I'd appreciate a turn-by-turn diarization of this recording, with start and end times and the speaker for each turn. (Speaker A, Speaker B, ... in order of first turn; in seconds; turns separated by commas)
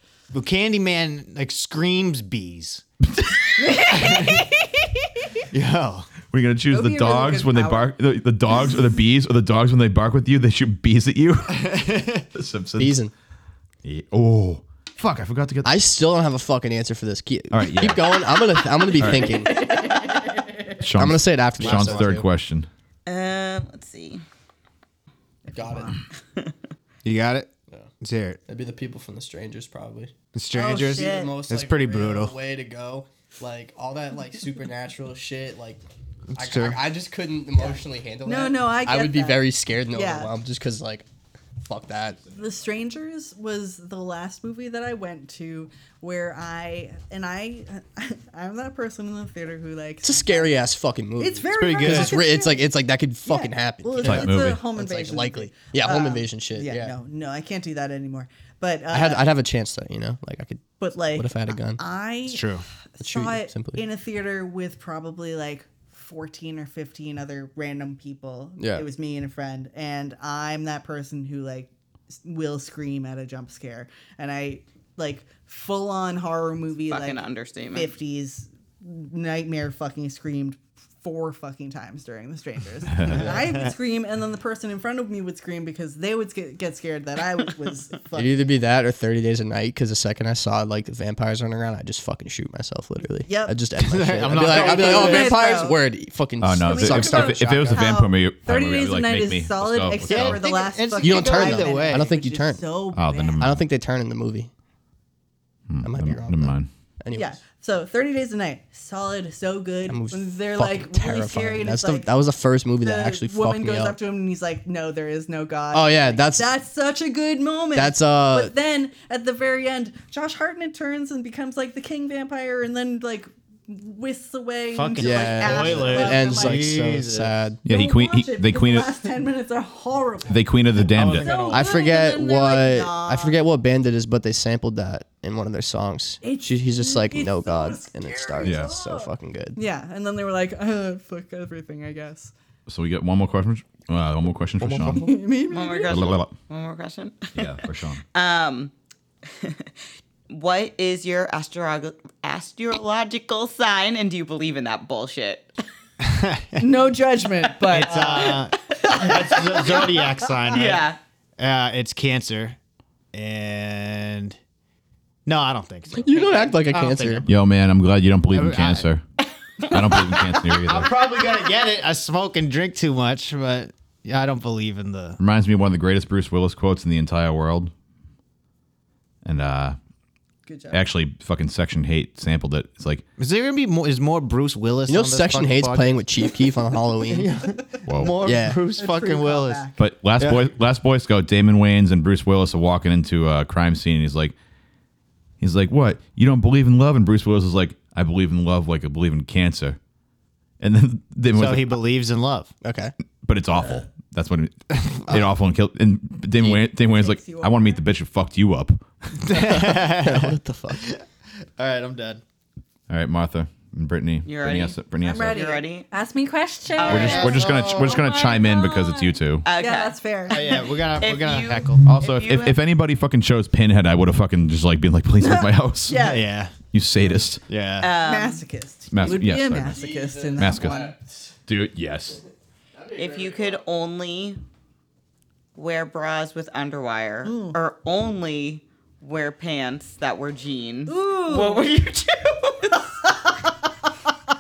Speaker A: 0.3-2.8, Speaker A: 3.7-4.5, Speaker B: 3.8-5.1, Speaker A: 5.5-6.1, Speaker C: 6.2-11.7, Speaker B: 6.7-8.9, Speaker A: 11.5-12.2, Speaker C: 12.3-13.0, Speaker D: 12.8-13.1, Speaker C: 13.8-15.8, Speaker D: 15.6-19.7, Speaker C: 17.5-18.2, Speaker C: 19.0-19.3, Speaker B: 19.5-20.6, Speaker C: 20.8-22.7, Speaker D: 20.9-22.2, Speaker A: 21.6-22.2, Speaker E: 23.1-24.2, Speaker B: 25.4-26.0, Speaker D: 25.5-25.9, Speaker A: 27.0-27.5, Speaker A: 28.0-28.4, Speaker D: 28.5-30.1, Speaker A: 30.3-32.3, Speaker B: 30.5-31.4, Speaker D: 31.0-35.8, Speaker A: 36.3-36.8, Speaker D: 36.3-41.0, Speaker B: 38.2-40.3, Speaker D: 41.6-42.2, Speaker B: 42.3-50.5, Speaker D: 50.0-57.0, Speaker B: 51.2-52.6, Speaker A: 51.5-52.2, Speaker B: 53.2-59.3, Speaker C: 54.0-54.6, Speaker D: 58.9-61.8, Speaker B: 60.8-71.7, Speaker A: 62.3-62.6, Speaker D: 63.0-63.8, Speaker D: 68.6-68.8, Speaker B: 72.2-88.4, Speaker E: 76.9-77.9, Speaker A: 83.1-83.7, Speaker D: 88.1-97.9, Speaker B: 93.2-93.6, Speaker A: 93.8-95.4, Speaker B: 94.3-95.8, Speaker C: 96.4-100.4, Speaker B: 96.6-103.4, Speaker A: 100.0-102.0, Speaker D: 101.0-102.6, Speaker C: 102.9-103.6, Speaker D: 103.4-104.5, Speaker C: 105.7-106.7, Speaker D: 105.8-107.4, Speaker B: 107.1-112.1, Speaker D: 109.9-114.0, Speaker B: 112.8-126.7, Speaker D: 115.7-116.5, Speaker D: 117.7-118.5, Speaker A: 124.7-127.3, Speaker D: 125.0-127.6, Speaker C: 127.6-128.9, Speaker B: 127.7-130.5, Speaker C: 130.3-131.3, Speaker A: 130.8-131.8, Speaker B: 131.1-133.4, Speaker D: 131.5-139.6, Speaker B: 136.2-142.3, Speaker C: 138.4-138.7, Speaker C: 142.7-145.1, Speaker D: 144.6-145.1, Speaker B: 144.9-146.1, Speaker E: 145.5-147.5, Speaker C: 145.9-146.3, Speaker C: 147.3-148.0, Speaker E: 148.1-148.7, Speaker E: 149.3-149.7, Speaker E: 150.3-155.5, Speaker A: 156.0-156.6, Speaker B: 156.6-158.5, Speaker A: 157.7-160.9, Speaker E: 158.1-159.9, Speaker E: 160.5-161.0, Speaker A: 161.4-162.6, Speaker A: 163.1-164.4, Speaker A: 165.2-167.3, Speaker D: 165.9-167.2, Speaker C: 167.2-169.0, Speaker A: 168.3-168.9, Speaker C: 169.7-170.9, Speaker A: 170.6-175.2, Speaker C: 175.2-177.7, Speaker C: 179.2-179.8, Speaker B: 180.4-180.8, Speaker C: 180.7-183.0, Speaker A: 183.2-186.1, Speaker D: 184.9-187.3, Speaker A: 187.0-190.5, Speaker B: 187.7-188.1, Speaker C: 187.9-188.1, Speaker D: 188.2-188.6, Speaker B: 188.7-189.8, Speaker C: 189.8-194.3, Speaker C: 195.4-199.8, Speaker C: 200.6-201.8, Speaker A: 201.3-202.5, Speaker D: 202.6-202.9, Speaker C: 203.2-209.1, Speaker A: 204.7-205.0, Speaker B: 206.4-207.8, Speaker A: 209.2-211.1, Speaker D: 209.3-210.8, Speaker A: 211.6-212.2, Speaker C: 212.9-215.4, Speaker E: 214.2-215.9, Speaker B: 215.0-217.5, Speaker E: 216.8-218.2, Speaker A: 216.9-218.0, Speaker C: 216.9-219.4, Speaker B: 218.1-220.6, Speaker E: 219.4-222.6, Speaker A: 220.3-221.8, Speaker C: 221.8-225.9, Speaker B: 225.2-226.4, Speaker A: 225.9-226.6, Speaker C: 226.6-227.4, Speaker A: 227.5-228.0, Speaker E: 227.8-228.4, Speaker B: 228.0-230.9, Speaker C: 228.9-230.9, Speaker D: 229.7-231.2, Speaker C: 231.5-232.2, Speaker D: 232.7-233.6, Speaker E: 232.9-234.4, Speaker E: 235.6-243.0, Speaker B: 237.2-237.6, Speaker B: 240.8-241.7, Speaker B: 243.0-243.9